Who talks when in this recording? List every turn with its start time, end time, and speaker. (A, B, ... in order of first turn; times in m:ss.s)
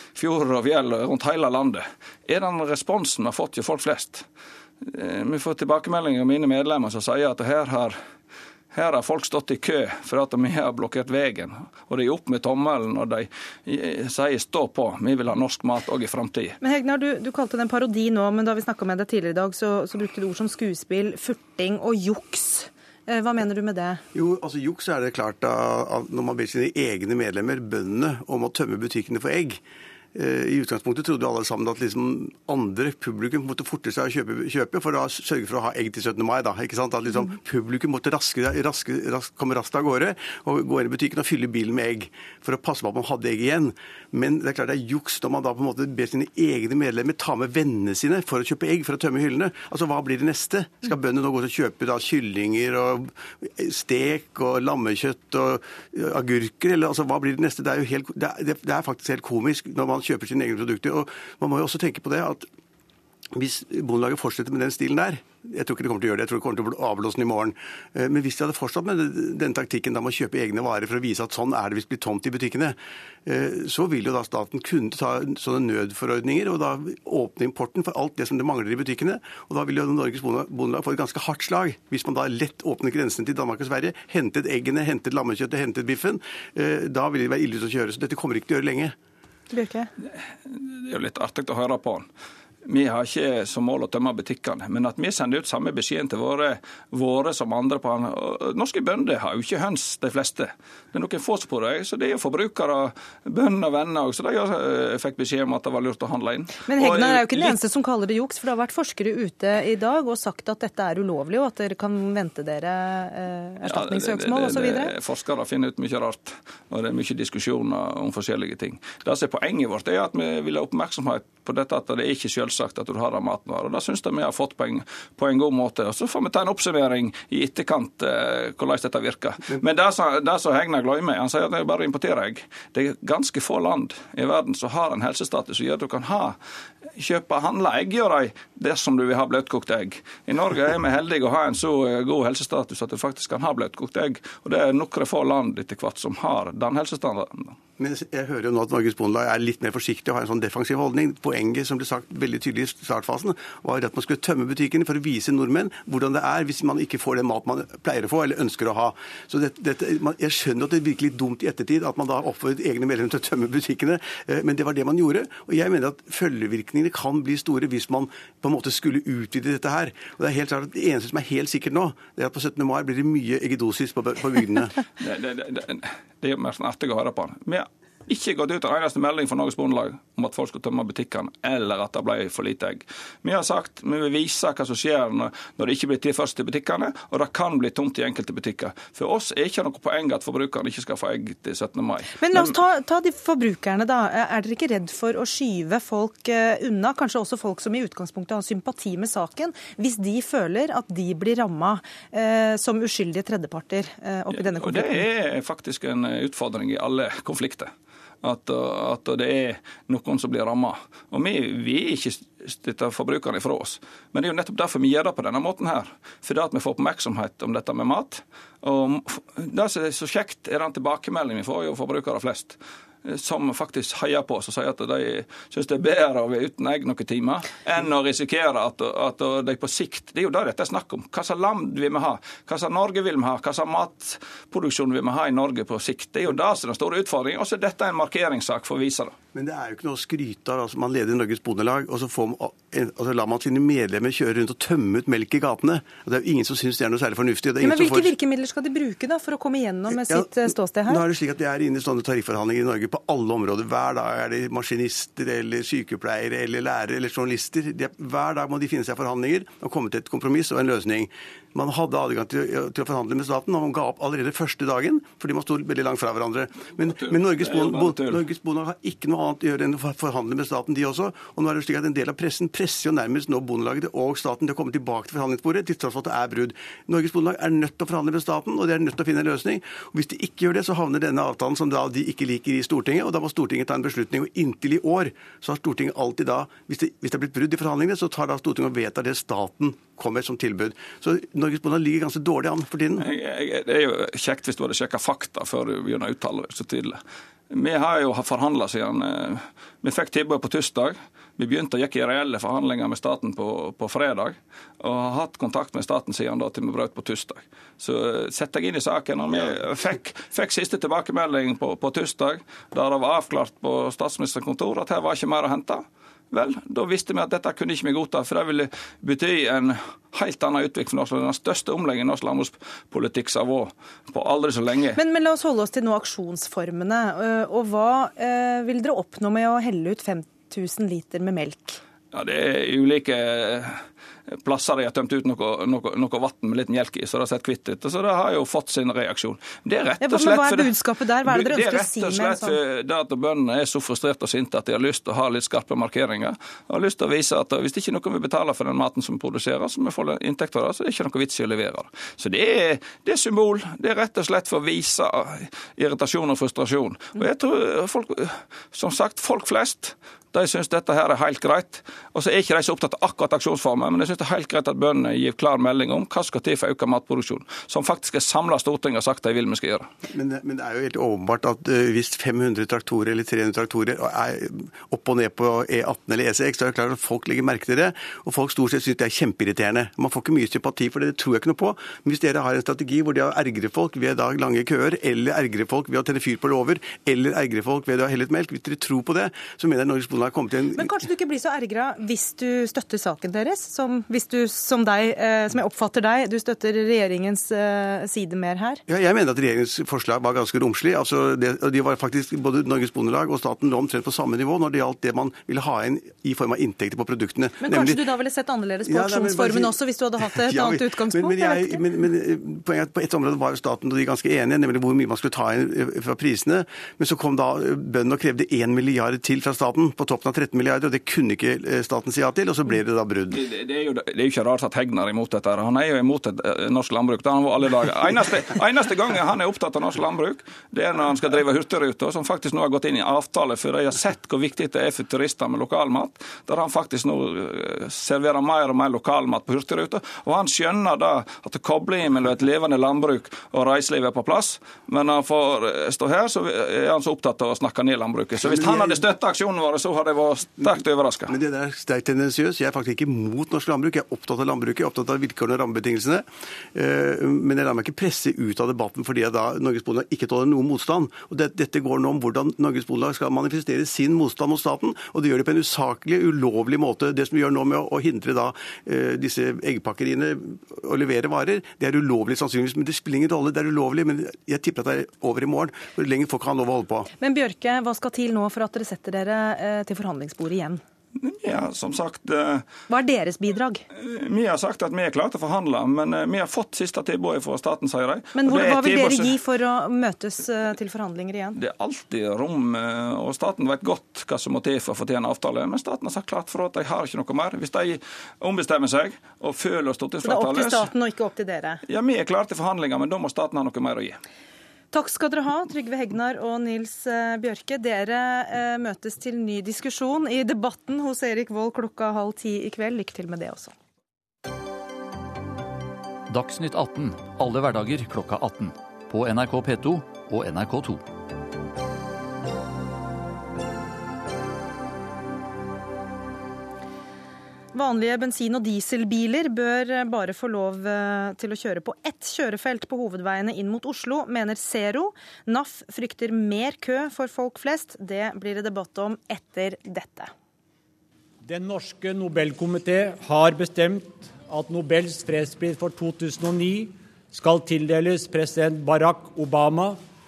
0:00.1-0:04.2 A
0:04.8-0:08.0 A
0:08.7-0:16.6 A
0:16.6-0:24.0 B
0:24.1-0:29.6 C
0:30.1-1:02.5 C
1:03.3-1:28.9 C
1:29.5-1:29.9 B
1:30.5-1:32.1 A
1:32.6-1:47.6 A
1:46.7-1:54.9 B
1:53.6-2:16.4 A
2:16.9-2:27.6 A
2:27.8-2:54.8 C
2:55.0-3:12.5 A
3:12.2-3:25.1 B
3:24.3-3:27.7 A
3:28.2-3:59.1 A
3:59.3-4:08.1 C
4:07.6-4:11.0 B
4:10.8-4:53.0 C
4:27.1-4:28.2 A
4:53.0-4:57.0 A
4:57.5-5:25.0 A
5:25.0-5:31.8 B
5:32.1-5:33.8 A
5:34.3-6:09.9 A
5:40.0-5:42.6 B
6:10.1-6:30.9 C
6:30.7-6:38.8 B
6:38.9-6:48.0 C
6:47.6-6:51.8 B
6:48.8-6:49.7 C
6:50.2-7:03.4 C
7:03.3-7:31.3 A
7:28.4-7:29.0 C
7:31.3-7:57.1 C
7:57.2-8:00.8 B
8:01.2-8:02.6 A
8:02.9-8:03.8 B
8:03.9-8:09.4 A
8:08.3-8:11.6 B
8:11.6-8:20.9 A
8:20.2-8:21.8 B
8:21.8-8:24.2 A
8:24.9-8:33.7 B
8:36.3-8:41.0 D
8:47.7-9:00.3 B
9:01.4-9:10.0 E